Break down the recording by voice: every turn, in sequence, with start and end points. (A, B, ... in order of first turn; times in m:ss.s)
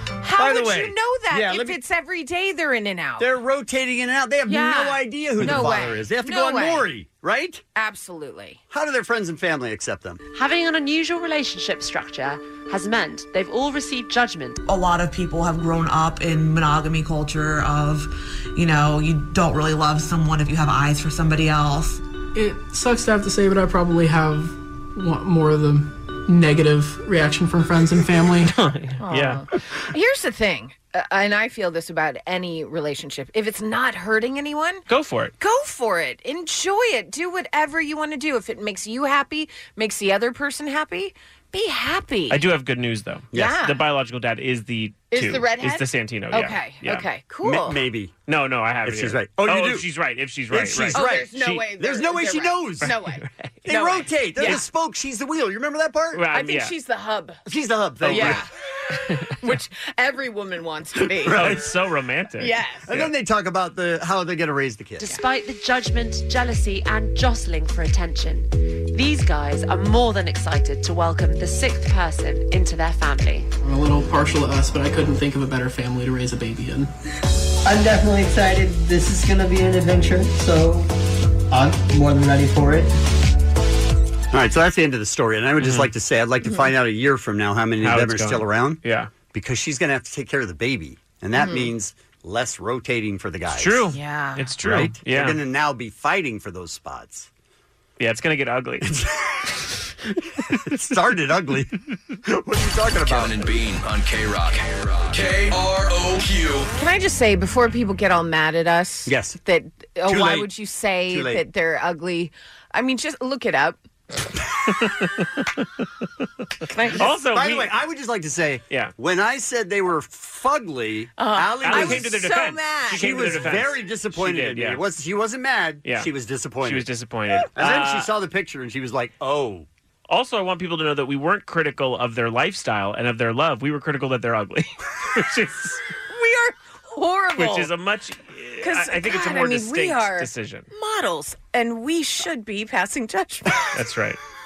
0:00.2-0:03.3 A
0:00.4-0:01.8 B
0:03.2-0:07.6 B
0:04.4-0:06.9 A
0:07.7-0:08.6 A
0:08.7-0:10.2 B
0:10.3-0:14.6 C
0:14.6-0:22.0 D
0:22.3-0:28.5 E
0:28.5-0:29.4 F
0:29.0-0:34.8 A
0:34.9-0:35.3 F
0:35.4-0:42.4 A
0:42.3-0:47.0 F
0:43.3-0:43.8 A
0:45.1-0:47.8 A
0:47.4-0:48.1 B
0:48.3-0:51.7 F
0:48.8-0:49.9 B
0:50.5-0:52.9 B
0:50.9-0:54.6 A
0:52.8-0:53.5 F
0:53.6-0:56.2 B
0:56.1-0:56.7 F
0:56.3-0:57.4 A
0:57.4-0:58.4 B
0:58.0-0:58.4 F
0:58.1-0:58.5 A
0:59.1-0:59.5 F
0:59.4-1:01.4 A
1:01.2-1:01.6 B
1:01.3-1:03.1 F
1:02.4-1:02.9 A
1:02.8-1:05.2 B
1:05.0-1:13.5 C
1:13.6-1:16.9 E
1:17.6-1:20.9 G
1:21.5-1:22.9 G
1:24.3-1:28.8 B
1:25.6-1:25.9 F
1:26.4-1:26.7 A
1:27.8-1:29.1 F
1:29.3-1:33.9 B
1:31.4-1:31.7 A
1:33.5-1:35.4 F
1:33.9-1:34.4 A
1:34.6-1:37.3 B
1:38.0-1:38.9 F
1:38.8-1:39.3 B
1:40.6-1:41.7 B
1:42.2-1:43.6 B
1:43.0-1:46.7 H
1:46.7-1:53.8 A
1:49.0-1:49.4 B
1:50.1-1:50.5 B
1:51.1-1:51.4 B
1:54.7-1:55.7 F
1:56.7-1:57.1 A
1:57.0-1:57.7 F
1:57.0-2:02.1 B
2:01.2-2:03.6 A
2:01.6-2:04.8 F
2:02.9-2:06.8 B
2:06.6-2:08.1 F
2:07.5-2:09.7 B
2:10.1-2:15.8 F
2:16.1-2:17.7 A
2:17.4-2:20.7 F
2:18.6-2:23.5 A
2:23.7-2:24.2 F